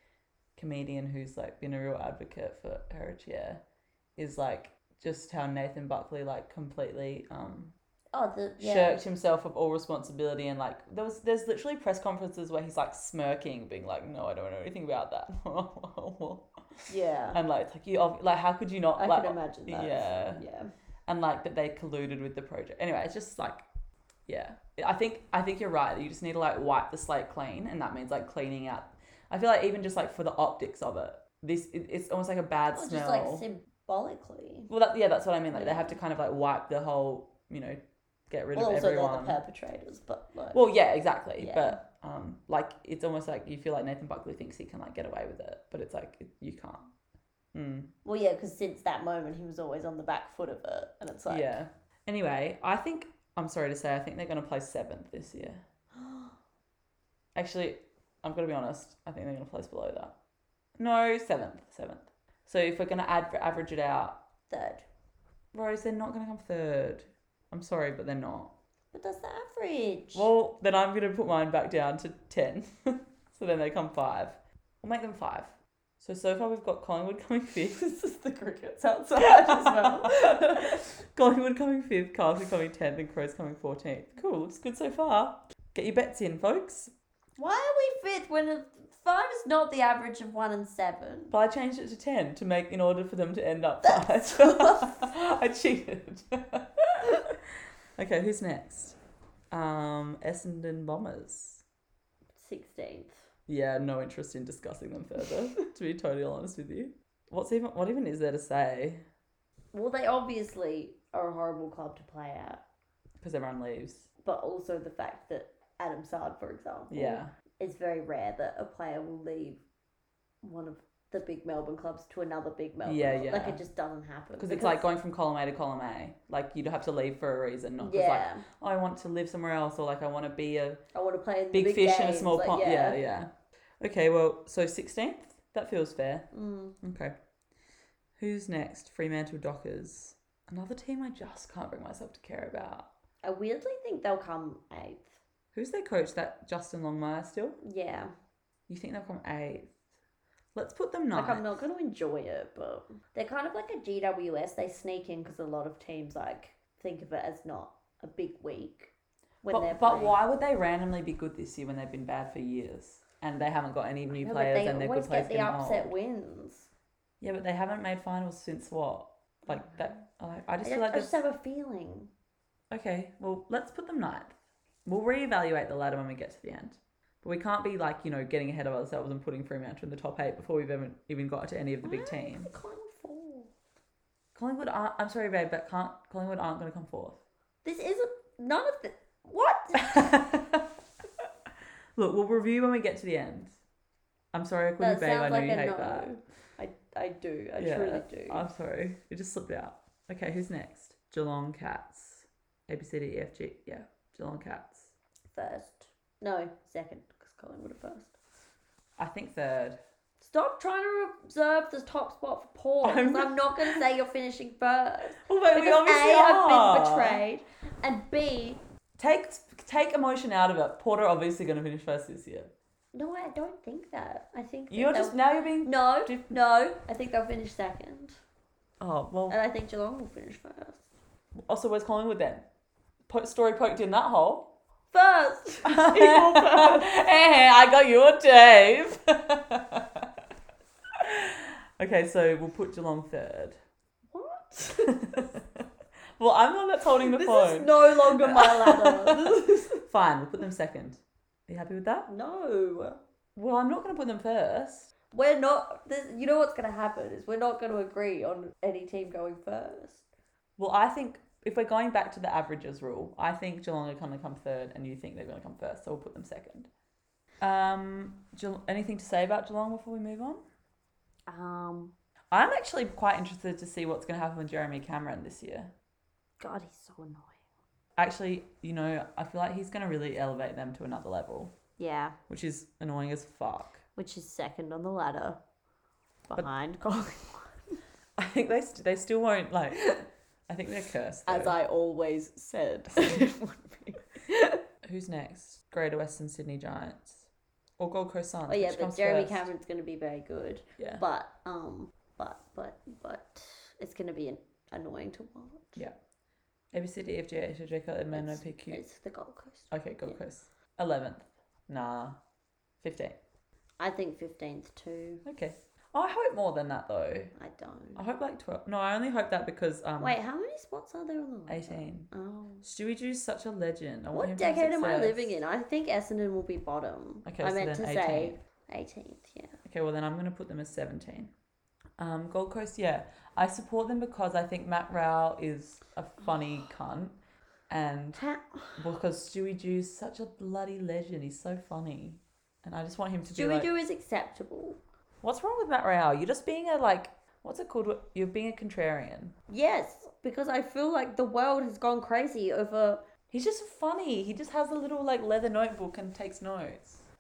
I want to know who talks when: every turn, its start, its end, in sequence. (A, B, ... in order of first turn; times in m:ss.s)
0:00.6-0:03.6 A
0:04.2-0:07.8 A
0:08.1-0:09.0 B
0:08.6-0:16.5 A
0:16.9-0:17.4 B
0:17.3-0:20.4 A
0:19.0-0:20.7 B
0:21.1-0:23.6 A
0:24.3-0:33.4 A
0:32.7-0:34.7 B
0:34.7-0:37.8 A
0:35.5-0:36.0 B
0:38.3-0:39.4 A
0:38.6-0:40.6 B
0:40.5-0:46.9 A
0:41.4-0:41.8 B
0:47.5-0:47.9 A
0:48.0-0:51.6 B
0:51.3-0:55.6 A
0:56.0-0:56.3 B
0:57.4-1:00.1 A
1:00.8-1:04.2 A
1:04.5-1:04.9 B
1:05.5-1:08.5 A
1:08.9-1:10.3 B
1:10.1-1:17.8 A
1:17.7-1:20.9 B
1:19.2-1:26.9 A
1:27.4-1:31.3 B
1:31.3-1:37.4 A
1:33.8-1:35.0 B
1:38.0-1:39.0 A
1:39.5-1:41.6 A
1:42.4-1:43.2 B
1:43.5-1:49.0 A
1:49.7-1:52.6 B
1:53.2-1:54.1 A
1:54.2-1:59.6 B
1:56.9-1:57.3 A
2:00.4-2:04.9 B
2:02.8-2:03.6 A
2:04.4-2:10.8 A
2:07.8-2:08.4 B
2:10.9-2:13.0 B
2:11.5-2:16.3 A
2:16.3-2:16.8 B
2:16.8-2:17.1 A
2:18.2-2:22.9 A
2:23.2-2:25.2 B
2:25.5-2:27.6 A
2:27.6-2:28.1 B
2:28.7-2:29.7 A
2:30.6-2:31.4 A
2:31.1-2:38.9 B
2:39.4-2:40.2 B
2:39.5-2:45.9 A
2:44.1-2:46.7 B
2:47.2-2:51.1 A
2:50.6-2:52.1 B
2:52.7-3:02.5 A
3:01.8-3:03.5 B
3:04.4-3:07.2 A
3:07.6-3:10.2 B
3:09.8-3:10.7 A
3:12.0-3:13.6 A
3:14.3-3:16.1 A
3:14.8-3:18.4 B
3:17.6-3:24.9 A
3:25.3-3:28.1 B
3:29.0-3:29.8 A
3:30.2-3:38.6 B
3:32.8-3:33.8 A
3:35.2-3:37.2 A
3:39.0-3:42.5 A
3:42.9-3:48.2 B
3:44.7-3:46.4 A
3:48.8-3:49.4 A
3:49.3-3:50.9 B
3:51.5-3:52.4 A
3:53.1-3:54.5 A
3:54.9-3:57.0 B
3:55.6-4:00.1 A
4:00.9-4:03.6 A
4:04.1-4:05.2 B
4:04.8-4:05.5 A
4:06.2-4:12.1 A
4:07.0-4:09.8 B
4:12.1-4:13.0 B
4:13.4-4:14.9 A
4:15.1-4:20.0 B
4:20.6-4:26.7 A
4:27.4-4:30.4 A
4:31.3-4:31.9 B
4:32.3-4:35.7 A
4:36.4-4:37.4 B
4:38.0-4:41.6 A
4:41.8-4:42.2 B
4:42.3-4:43.8 A
4:44.0-4:45.4 B
4:46.3-4:47.8 B
4:48.2-4:50.0 A
4:50.5-4:51.6 A
4:51.3-4:54.6 B
4:53.0-4:53.2 A
4:54.8-4:57.2 A
4:57.8-4:59.5 A
4:58.5-5:05.8 B
5:00.8-5:01.0 A
5:06.7-5:08.8 A
5:08.1-5:10.2 B
5:09.7-5:12.2 A
5:12.8-5:13.2 A
5:13.8-5:15.2 B
5:15.2-5:17.3 A
5:17.4-5:18.0 B
5:18.0-5:20.2 A
5:20.0-5:22.6 B
5:21.5-5:22.1 A
5:22.6-5:25.4 A
5:24.1-5:29.6 B
5:27.2-5:28.4 A
5:29.6-5:31.3 A
5:32.0-5:37.2 A
5:37.7-5:38.2 A
5:38.2-5:38.8 B
5:38.8-5:43.7 A
5:43.3-5:44.8 B
5:45.2-5:49.4 A
5:49.5-5:53.0 B
5:53.3-5:57.0 A